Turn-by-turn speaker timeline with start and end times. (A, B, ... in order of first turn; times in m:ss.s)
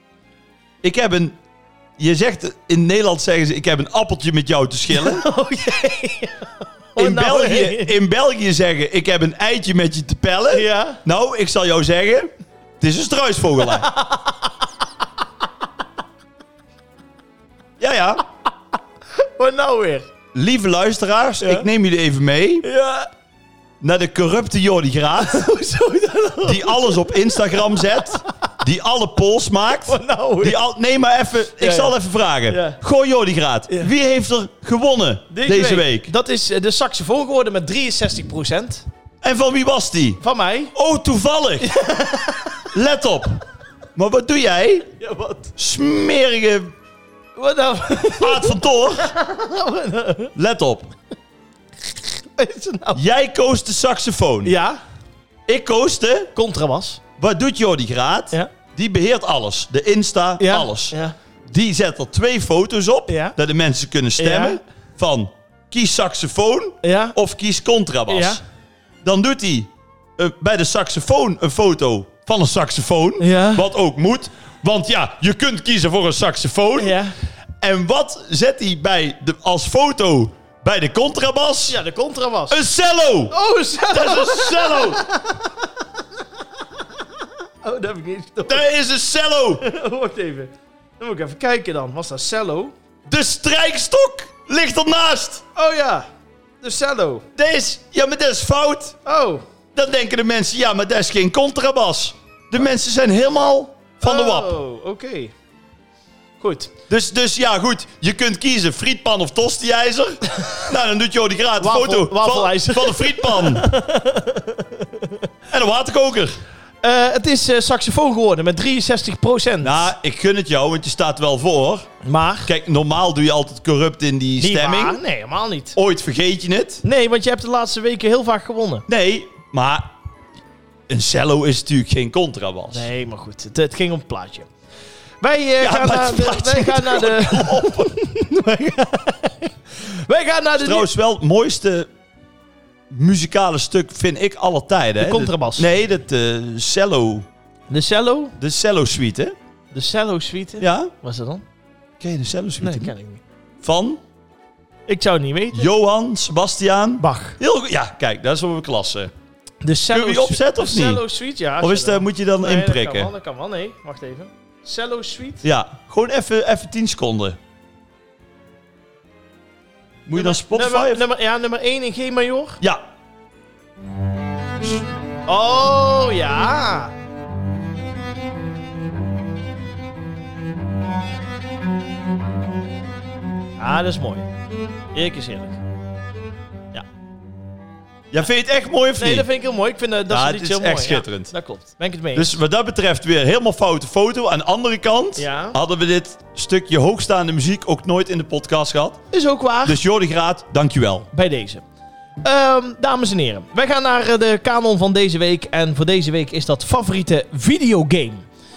0:00.8-0:01.4 A
0:02.0-0:05.2 A
0:04.9-0:08.0 B
0:07.0-0:13.9 A
0:10.5-0:11.0 B
0:13.7-0:14.5 B
0:17.8-0:18.2 A
0:19.2-0:20.1 B
0:20.3-0:22.7 A
0:21.4-0:21.7 B
0:22.6-0:23.1 B
0:23.8-0:25.4 A
0:25.2-0:28.3 B
0:26.4-0:36.1 A
0:29.9-0:30.6 B
0:31.6-0:32.0 B
0:32.5-0:32.8 B
0:35.3-0:38.8 B
0:39.2-0:40.2 A
0:40.2-0:40.7 B
0:40.7-0:41.7 A
0:41.6-0:42.7 B
0:42.7-0:43.4 A
0:44.0-0:44.9 A
0:44.9-0:45.5 B
0:45.6-0:46.7 A
0:47.4-0:50.3 B
0:48.2-0:49.1 A
0:50.4-0:50.9 A
0:52.4-0:53.0 B
0:53.0-0:54.6 A
0:54.4-0:54.8 B
0:55.5-0:56.3 A
0:56.4-0:57.0 B
0:57.2-1:01.0 A
1:00.4-1:01.2 B
1:01.5-1:08.4 A
1:03.1-1:03.4 B
1:04.2-1:04.6 B
1:06.8-1:07.2 B
1:08.1-1:08.4 B
1:09.0-1:17.0 A
1:13.2-1:13.6 B
1:16.8-1:17.1 B
1:17.6-1:21.8 A
1:21.7-1:22.6 B
1:22.5-1:23.4 A
1:23.3-1:25.5 B
1:23.9-1:25.0 A
1:27.6-1:28.7 B
1:28.5-1:29.6 A
1:29.6-1:32.7 B
1:33.1-1:35.4 A
1:35.6-1:36.1 B
1:36.6-1:37.3 B
1:37.4-1:39.0 A
1:39.0-1:39.4 B
1:39.8-1:44.6 A
1:44.0-1:45.3 B
1:46.4-1:46.7 B
1:46.9-1:53.7 A
1:51.6-1:55.3 B
1:55.5-1:56.4 A
1:56.8-1:59.9 B
1:59.6-2:01.9 A
2:02.0-2:02.5 B
2:02.5-2:05.0 A
2:04.4-2:05.8 B
2:05.8-2:06.8 A
2:06.8-2:08.9 B
2:08.9-2:09.9 A
2:10.9-2:12.9 A
2:12.7-2:14.5 B
2:15.2-2:20.9 B
2:15.6-2:17.9 A
2:20.6-2:21.9 A
2:22.9-2:27.3 A
2:25.0-2:25.7 B
2:27.7-2:28.4 B
2:28.4-2:29.4 A
2:29.7-2:31.4 B
2:30.6-2:30.9 A
2:32.0-2:32.9 A
2:32.6-2:33.2 B
2:33.6-2:34.0 A
2:34.9-2:35.7 B
2:35.5-2:39.1 A
2:37.0-2:37.4 B
2:39.6-2:45.4 B
2:39.9-2:41.0 A
2:41.6-2:43.1 A
2:45.4-2:47.4 A
2:50.1-2:51.0 A
2:50.1-2:52.6 B
2:55.3-2:56.9 B
3:03.6-3:04.3 B
3:04.9-3:05.6 B
3:08.1-3:09.3 A
3:09.0-3:12.4 B
3:10.1-3:11.3 A
3:12.1-3:19.0 A
3:15.2-3:15.6 B
3:19.1-3:19.8 B
3:19.6-3:21.1 A
3:21.1-3:21.6 B
3:22.2-3:28.3 B